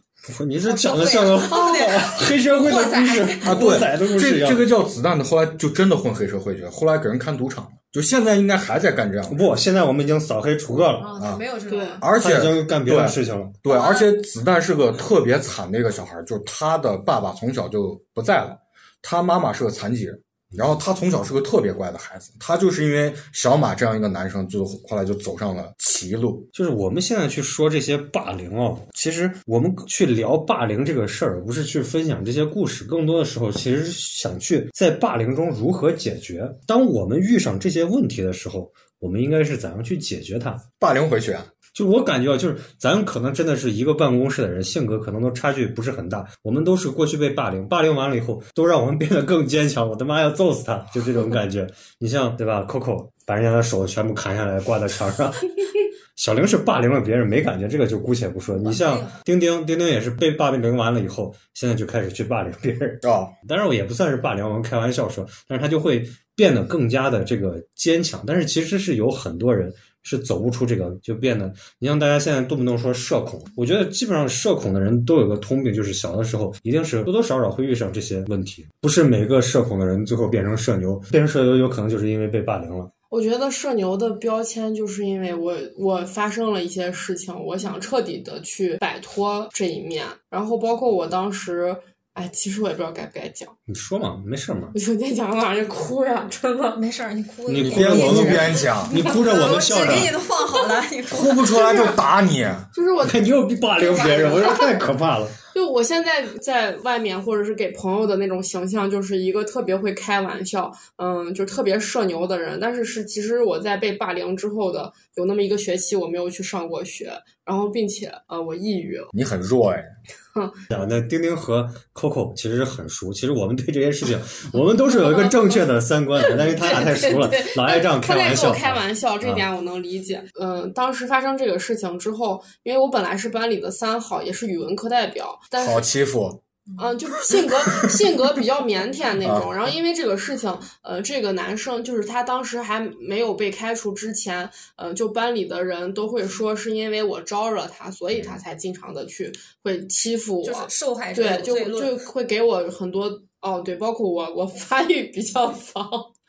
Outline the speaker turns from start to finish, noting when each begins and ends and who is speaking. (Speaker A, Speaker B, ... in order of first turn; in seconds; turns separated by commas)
Speaker A: 0.2-4.7, Speaker B: 0.6-3.8, Speaker C: 3.4-9.4, Speaker A: 9.3-11.2, Speaker B: 11.0-12.1, Speaker C: 11.2-11.4, Speaker D: 11.7-12.0, Speaker C: 12.0-26.5, Speaker A: 12.2-13.6, Speaker B: 13.7-14.1, Speaker A: 26.5-40.6, Speaker C: 40.8-41.5, Speaker A: 41.7-55.5, Speaker A: 56.1-82.9, Speaker B: 58.6-59.1, Speaker C: 63.0-63.3, Speaker D: 83.1-93.5, Speaker A: 93.7-94.7, Speaker D: 94.7-96.8, Speaker B: 96.7-101.6, Speaker A: 97.5-100.2, Speaker C: 97.5-99.0, Speaker D: 98.9-99.8, Speaker C: 101.1-102.7, Speaker D: 101.5-102.0, Speaker D: 102.7-104.9, Speaker A: 103.0-105.3, Speaker D: 105.5-119.1, Speaker C: 119.1-119.9, Speaker A: 120.7-129.4, Speaker D: 124.8-135.8, Speaker C: 135.6-136.4, Speaker D: 136.8-156.1, Speaker C: 139.2-139.5, Speaker B: 150.4-151.9